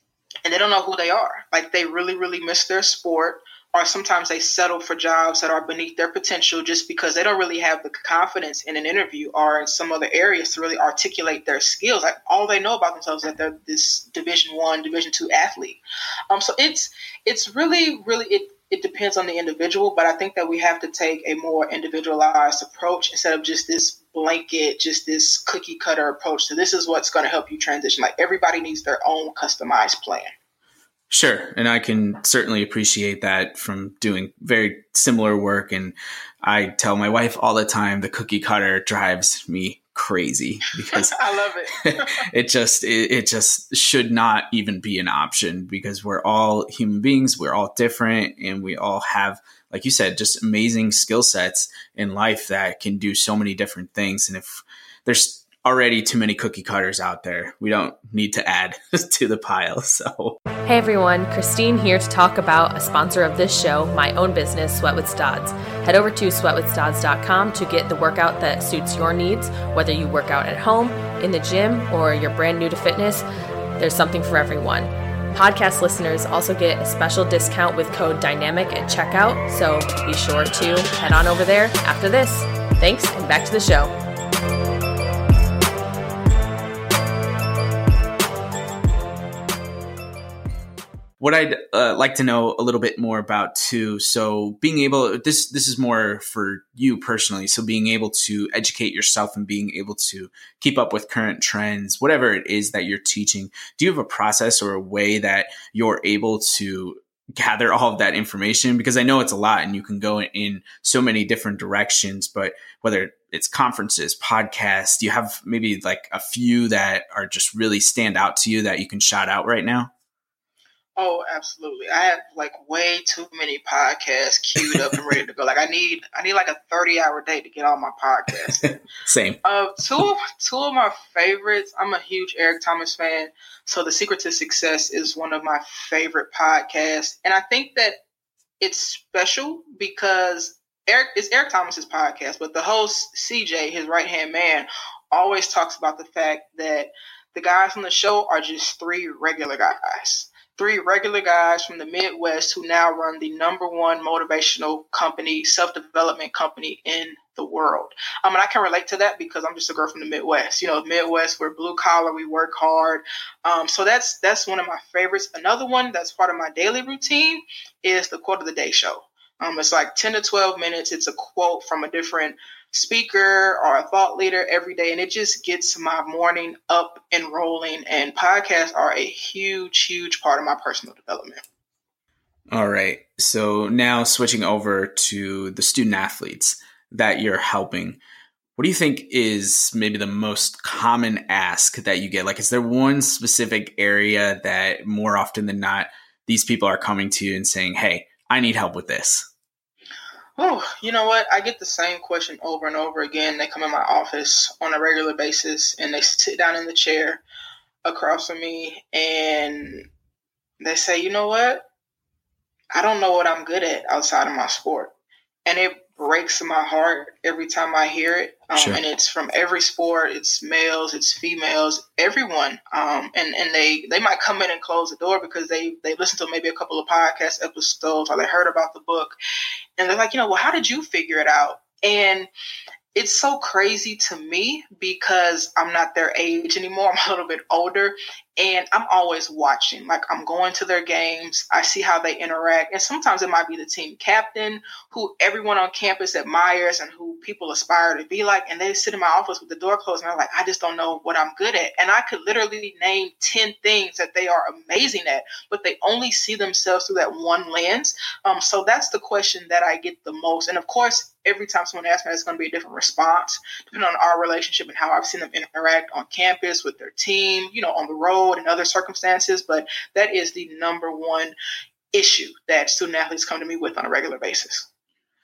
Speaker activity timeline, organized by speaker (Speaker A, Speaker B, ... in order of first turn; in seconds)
Speaker A: 0.5-30.3, 41.0-42.1, 121.0-128.7, 129.4-138.0, 138.6-181.4, 200.4-207.2, 207.8-209.9, 210.6-211.6, 212.7-214.9, 215.5-229.2, 229.8-232.3, 232.9-271.3, 271.9-274.7
Speaker B: 31.1-41.2, 41.8-60.4, 91.2-119.9, 128.6-129.4, 182.5-188.0, 188.6-199.3, 218.5-218.8
Speaker C: 60.7-73.2, 73.8-83.9